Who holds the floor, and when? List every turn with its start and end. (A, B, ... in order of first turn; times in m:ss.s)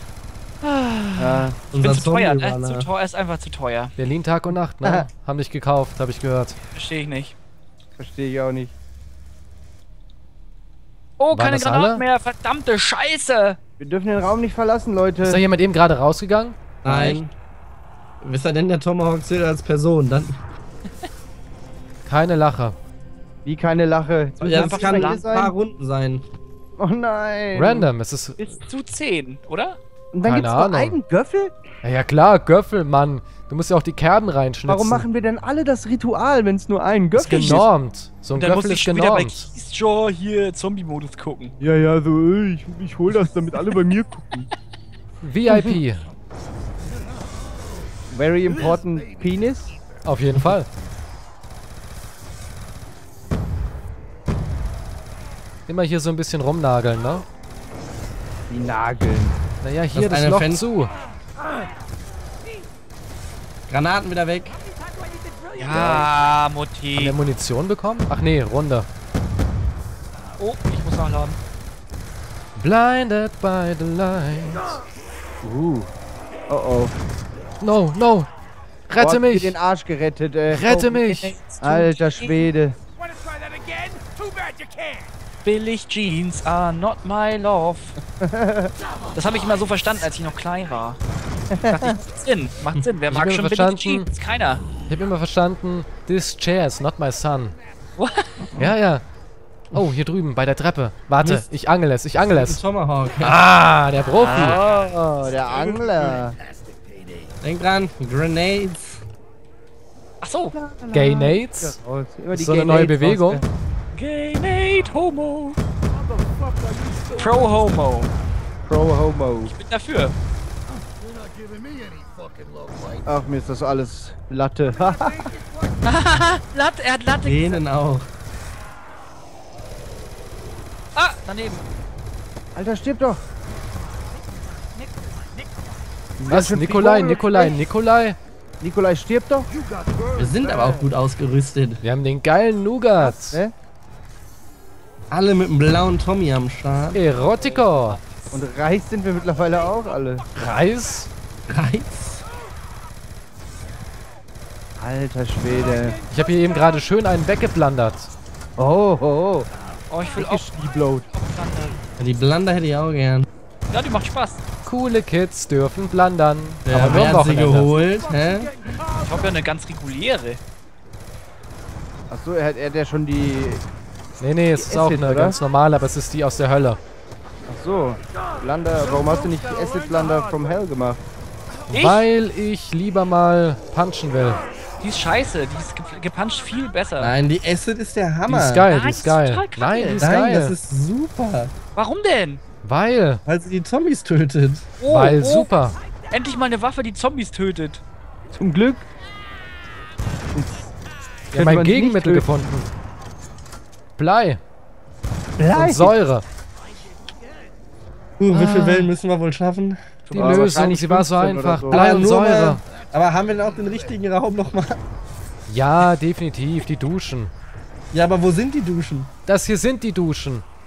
0:00.6-0:04.0 A
0:01.2-0:01.6 B
0:01.7-0:02.9 C
0:04.0-0:06.6 D
0:06.7-0:07.4 A
0:08.0-0:08.7 B
0:11.2-0:13.6 A
0:11.3-0:12.0 D
0:13.8-0:15.4 B
0:15.2-0:16.6 D
0:16.8-0:17.3 C
0:16.9-0:17.2 B
0:18.2-0:20.4 C
0:22.1-0:22.8 D
0:23.4-0:25.5 B
0:24.4-0:25.4 A
0:24.4-0:26.2 C
0:26.8-0:27.9 B
0:27.5-0:28.4 D
0:28.4-0:29.8 A
0:30.1-0:31.5 B
0:30.2-0:31.0 D
0:31.8-0:35.0 D
0:34.7-0:37.7 B
0:37.2-0:39.5 D
0:37.2-0:37.7 A
0:38.3-0:41.6 A
0:41.6-0:44.5 B
0:45.2-0:46.1 D
0:45.5-0:45.8 B
0:48.1-0:49.8 B
0:50.0-0:50.7 D
0:55.7-0:57.3 D
0:58.5-0:59.4 B
0:59.6-1:00.9 D
0:59.9-1:00.6 C
1:03.7-1:04.6 C
1:05.5-1:07.2 A
1:05.8-1:06.1 B
1:07.0-1:08.9 D
1:10.4-1:11.4 A
1:12.6-1:14.8 D
1:15.4-1:15.9 B
1:16.5-1:17.0 B
1:17.6-1:18.3 D
1:18.9-1:19.6 D
1:19.0-1:22.8 B
1:20.5-1:21.8 D
1:21.8-1:22.4 A
1:25.4-1:28.0 A
1:28.2-1:28.7 B
1:29.1-1:31.0 A
1:31.5-1:32.0 B
1:31.6-1:34.6 A
1:33.1-1:34.1 D
1:34.9-1:37.6 D
1:38.0-1:38.5 A
1:38.6-1:39.0 D
1:39.7-1:42.6 D
1:41.2-1:41.5 C
1:42.3-1:43.4 C
1:43.2-1:44.6 D
1:44.2-1:45.5 A
1:45.2-1:46.4 B
1:47.4-1:49.0 C
1:50.2-1:50.5 A
1:50.5-1:53.4 B
1:50.9-1:51.8 D
1:52.3-1:53.4 D
1:53.9-1:55.6 A
1:57.1-1:58.1 A
1:58.6-1:59.5 B
1:59.4-2:00.1 A
2:03.1-2:05.3 B
2:05.8-2:07.6 A
2:07.2-2:08.1 C
2:11.0-2:11.6 A
2:12.6-2:13.2 B
2:16.2-2:17.6 B
2:16.3-2:18.2 D
2:18.6-2:19.5 B
2:20.2-2:21.8 C
2:21.8-2:23.4 D
2:23.0-2:23.5 B
2:25.1-2:27.0 C
2:26.9-2:28.0 D
2:27.8-2:28.4 A
2:28.3-2:30.3 B
2:30.4-2:31.1 D
2:31.5-2:32.2 C
2:34.8-2:36.0 B
2:36.1-2:38.1 D
2:38.6-2:39.5 B
2:39.9-2:41.8 A
2:40.2-2:41.1 B
2:42.0-2:43.3 C
2:43.7-2:44.4 A
2:44.6-2:47.7 D
2:46.7-2:48.5 C
2:49.0-2:50.4 A
2:52.1-2:53.6 B
2:54.2-2:56.8 D
2:54.5-2:55.4 B
2:57.5-3:01.0 B
3:01.7-3:02.0 A
3:01.7-3:04.5 D
3:04.8-3:07.1 A
3:07.0-3:08.7 C
3:08.3-3:10.6 D
3:08.7-3:10.1 A
3:10.0-3:11.5 C
3:11.8-3:12.4 A
3:12.6-3:13.2 D
3:13.3-3:14.7 C
3:14.8-3:15.5 A
3:14.9-3:15.8 D
3:16.1-3:17.8 A
3:18.3-3:18.9 B
3:20.3-3:20.7 B
3:21.3-3:22.4 B
3:21.3-3:22.7 D
3:24.0-3:24.4 D
3:25.4-3:25.9 B
3:25.5-3:26.2 D
3:28.2-3:30.1 C
3:28.3-3:28.9 D
3:30.1-3:30.7 A
3:30.1-3:32.6 D
3:30.2-3:31.9 B
3:31.7-3:34.8 C
3:35.5-3:37.3 D
3:37.9-3:39.1 C
3:39.3-3:40.4 D